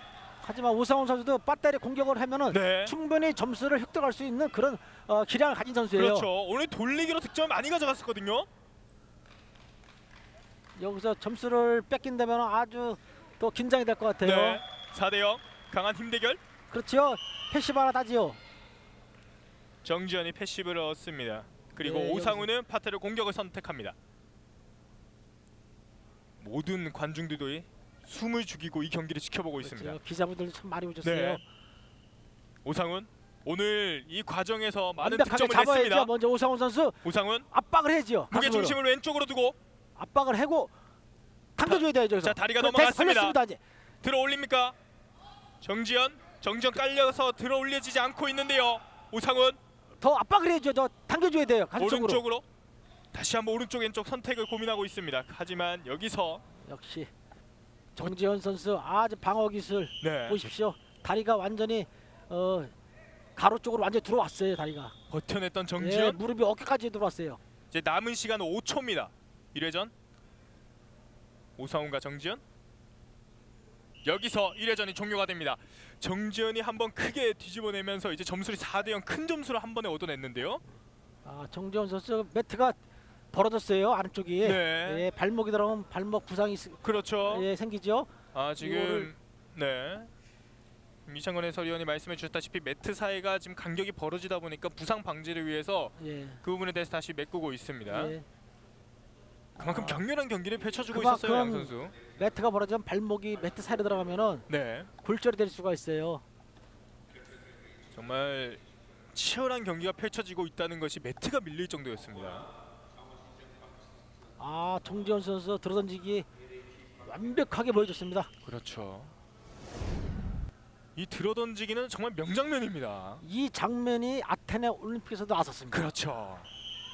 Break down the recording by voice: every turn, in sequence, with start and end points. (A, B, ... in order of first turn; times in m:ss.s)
0:00.4-0:06.3 A
0:02.5-0:03.0 B
0:05.9-0:08.5 B
0:10.8-0:14.6 A
0:14.2-0:16.4 B
0:16.7-0:18.4 A
0:19.8-0:24.0 B
0:21.8-0:22.5 A
0:26.4-0:30.0 B
0:29.6-0:31.4 A
0:31.0-0:31.4 B
0:32.6-0:36.1 B
0:35.0-0:37.0 A
0:37.0-0:37.5 B
0:37.5-0:38.8 A
0:38.3-0:39.6 B
0:40.0-0:40.7 A
0:41.6-0:43.6 A
0:41.6-0:43.4 B
0:44.0-0:44.8 B
0:45.6-0:49.6 B
0:50.0-0:52.2 A
0:51.8-0:52.4 B
0:53.1-0:56.4 B
0:56.6-0:57.1 A
0:58.0-1:02.7 A
1:00.0-1:00.5 B
1:03.4-1:04.9 A
1:05.1-1:06.2 B
1:05.8-1:07.4 A
1:07.7-1:09.9 B
1:11.6-1:12.4 B
1:14.0-1:20.6 B
1:21.2-1:22.8 A
1:23.3-1:29.1 A
1:24.4-1:25.1 B
1:26.8-1:27.5 B
1:28.3-1:30.1 B
1:31.1-1:38.2 B
1:36.0-1:36.4 A
1:37.9-1:38.2 A
1:39.6-1:40.0 A
1:39.6-1:42.0 B
1:40.9-1:44.5 A
1:44.5-1:44.9 B
1:45.0-1:46.2 A
1:47.9-1:48.6 B
1:49.1-1:52.5 B
1:54.4-1:56.3 A
1:57.0-1:58.3 A
1:58.4-1:59.1 B
2:01.0-2:03.2 B
2:03.2-2:05.9 A
2:05.7-2:06.5 B